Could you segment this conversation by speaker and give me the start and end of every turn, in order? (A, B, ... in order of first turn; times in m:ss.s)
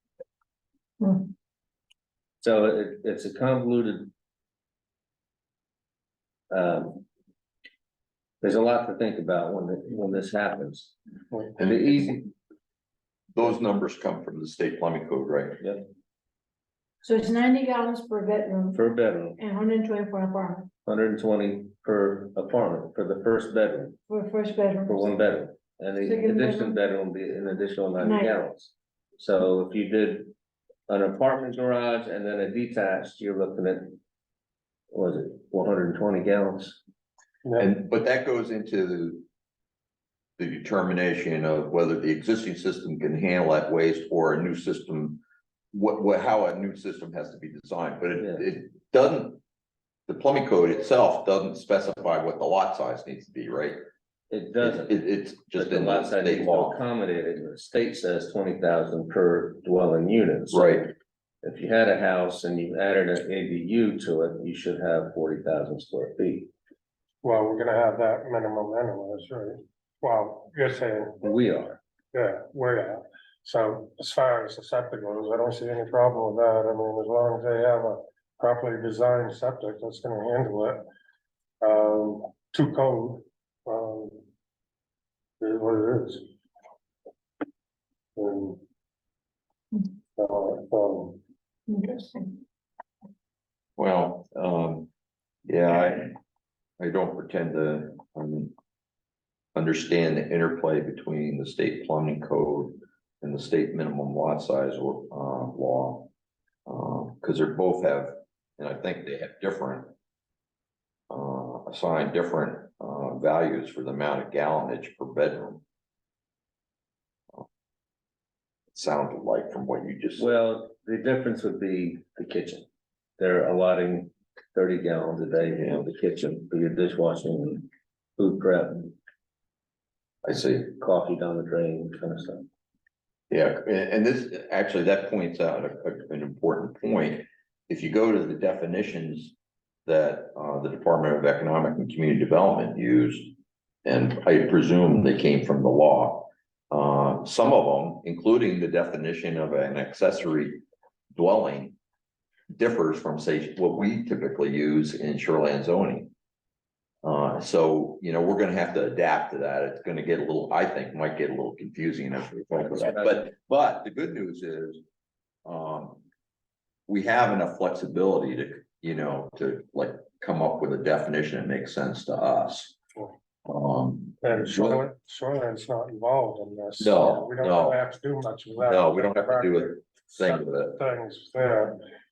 0:01.0-0:01.3 A
0:02.4-0:04.1 B
0:06.5-0:07.0 B
0:08.4-0:11.0 B
0:11.5-0:12.3 B
0:11.6-0:12.1 C
0:13.3-0:15.6 C
0:17.0-0:18.8 A
0:18.7-0:19.4 B
0:19.4-0:20.7 A
0:20.9-0:24.0 B
0:24.1-0:25.0 A
0:24.9-0:30.3 B
0:26.0-0:26.8 A
0:28.0-0:28.4 A
0:30.9-0:34.0 B
0:34.9-0:36.8 B
0:37.6-0:39.3 C
0:40.4-0:49.4 C
0:48.2-0:48.5 B
0:50.1-0:53.8 C
0:54.3-0:55.0 B
0:54.6-0:56.8 C
0:55.5-1:00.9 B
1:00.5-1:00.9 C
1:01.4-1:06.5 B
1:07.2-1:11.2 D
1:11.2-1:11.8 B
1:12.1-1:20.8 D
1:21.6-1:24.2 D
1:25.4-1:26.2 D
1:28.2-1:28.6 D
1:30.2-1:31.2 D
1:31.7-1:32.4 A
1:33.8-1:34.9 C
1:35.5-1:36.2 C
1:36.8-1:38.5 C
1:39.6-1:46.1 C
1:46.7-1:49.9 C
1:51.1-1:55.6 C
1:58.7-2:00.3 C
2:00.2-2:02.6 B
2:03.2-2:08.9 B
2:05.6-2:05.8 C
2:10.3-2:12.5 B
2:13.3-2:19.4 C
2:19.9-2:23.3 C
2:23.8-2:30.6 C
2:31.2-2:31.8 C
2:32.5-2:36.1 C
2:37.0-2:44.8 C
2:42.6-2:43.2 B
2:45.4-2:46.0 C
2:46.9-2:52.8 C
2:53.5-2:54.8 C
2:54.2-3:01.8 D
2:56.8-2:57.8 C
2:58.6-3:00.8 C